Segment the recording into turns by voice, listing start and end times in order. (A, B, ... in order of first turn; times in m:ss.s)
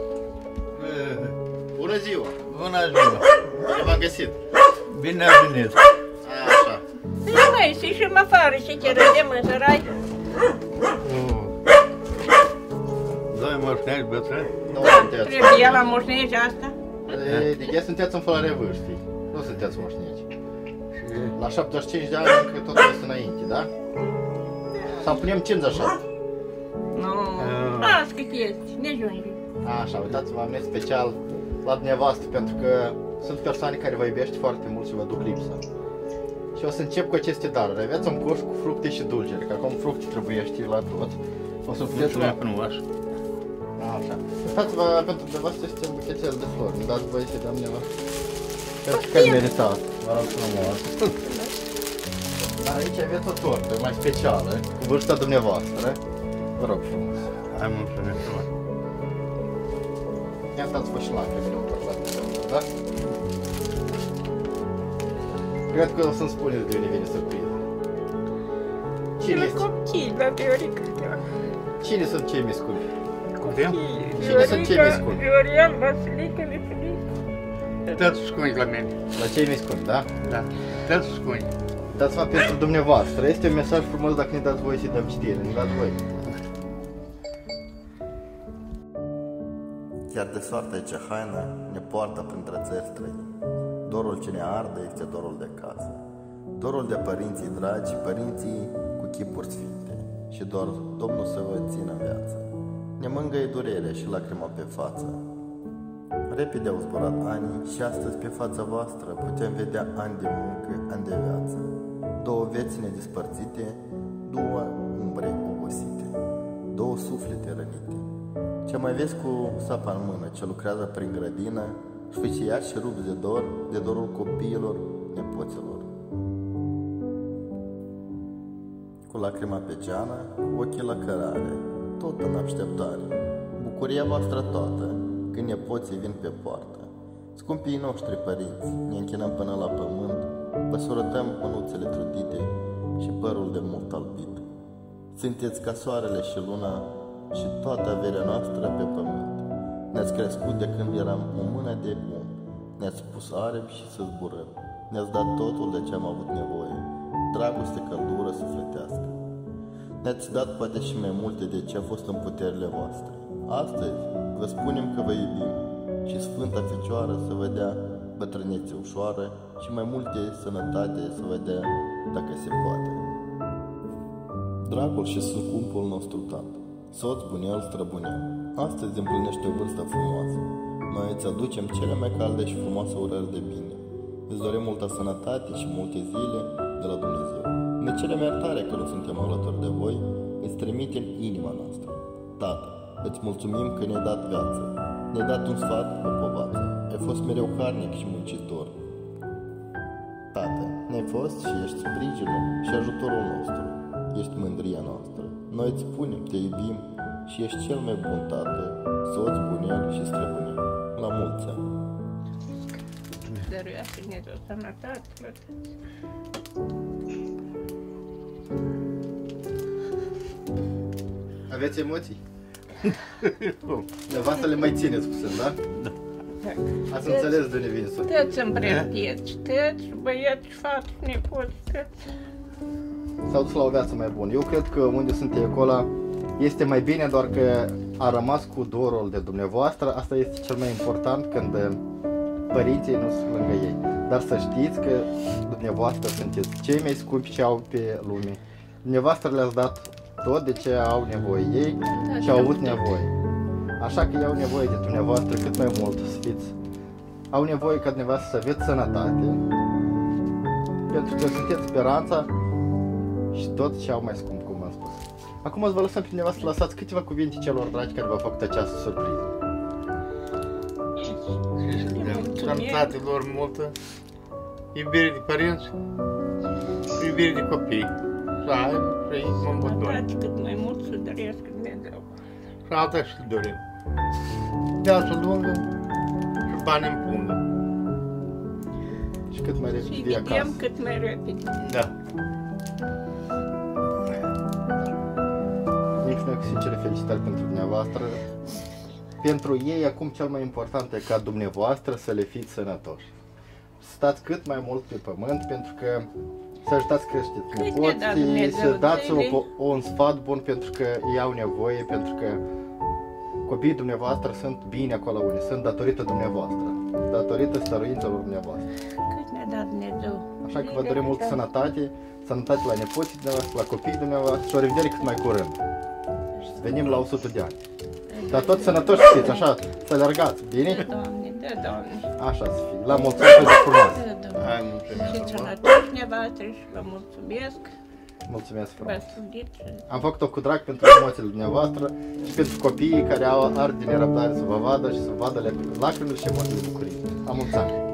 0:00.7-0:01.3 A
0:01.7-0:02.3 B
0:02.5-0:03.2 A
0:03.6-0:04.4 B
0:04.9-0:05.8 A
0:06.2-0:06.8 B
0:07.2-0:10.0 C
0:11.0-0:11.5 A
0:13.3-0:14.6 A
0:14.7-0:15.8 B
0:14.8-0:16.7 C
0:17.1-0:20.2 B
0:21.0-0:21.3 A
0:21.3-0:23.7 B
0:24.9-0:26.0 B
0:26.9-0:29.4 C
0:27.4-0:28.0 A
0:29.6-0:35.6 B
0:36.5-0:42.4 B
0:41.9-0:42.8 A
0:43.8-0:47.9 B
0:48.8-0:50.9 B
0:48.9-0:49.5 C
0:51.2-0:51.5 C
0:52.6-0:56.0 B
0:56.6-0:57.3 B
0:57.5-0:58.5 A
1:00.5-1:02.7 B
1:05.7-1:07.6 B
1:09.2-1:09.6 B
1:09.2-1:11.2 C
1:11.8-1:12.9 B
1:13.4-1:17.0 C
1:13.5-1:13.8 A
1:14.2-1:15.2 B
1:17.9-1:18.9 A
1:19.1-1:20.1 B
1:20.2-1:21.5 A
1:21.9-1:26.2 B
1:30.1-1:33.3 D
1:33.8-1:45.2 D
1:46.3-1:58.1 D
1:58.6-2:05.9 D
2:09.1-2:24.4 D
2:25.1-2:39.2 D
2:40.0-2:53.0 D
2:54.6-3:18.8 D
3:20.3-3:31.7 D
3:33.4-3:35.4 C
3:41.5-3:42.2 B
3:43.0-3:43.8 A
3:44.0-3:45.6 B
3:46.9-3:48.4 B
3:47.0-3:47.4 C
3:48.0-3:51.9 C
3:53.3-4:01.8 B
4:02.5-4:13.1 B
4:11.8-4:12.9 C
4:13.8-4:16.5 B
4:17.3-4:19.4 B
4:20.9-4:22.3 B
4:23.3-4:29.3 B
4:31.6-4:33.7 A
4:31.7-4:32.9 C
4:34.7-4:35.7 A
4:36.9-4:40.0 A
4:39.4-4:42.1 C
4:42.7-4:43.6 A
4:44.7-4:45.6 A
4:46.5-4:47.4 A
4:49.3-4:50.6 B
4:49.8-4:51.6 C
4:51.6-4:51.9 A
4:56.0-4:58.2 B
4:59.2-5:03.1 B
5:03.8-5:06.1 B
5:06.6-5:12.4 B
5:07.5-5:09.4 C
5:13.4-5:18.7 B
5:19.0-5:21.4 C
5:20.4-5:25.6 B
5:26.5-5:27.6 B
5:28.1-5:29.5 C
5:28.3-5:30.9 B
5:30.6-5:32.1 C
5:32.2-5:34.0 B
5:33.7-5:37.7 C
5:34.3-5:35.5 A
5:38.2-5:39.2 B
5:38.8-5:39.8 C
5:39.9-5:47.7 B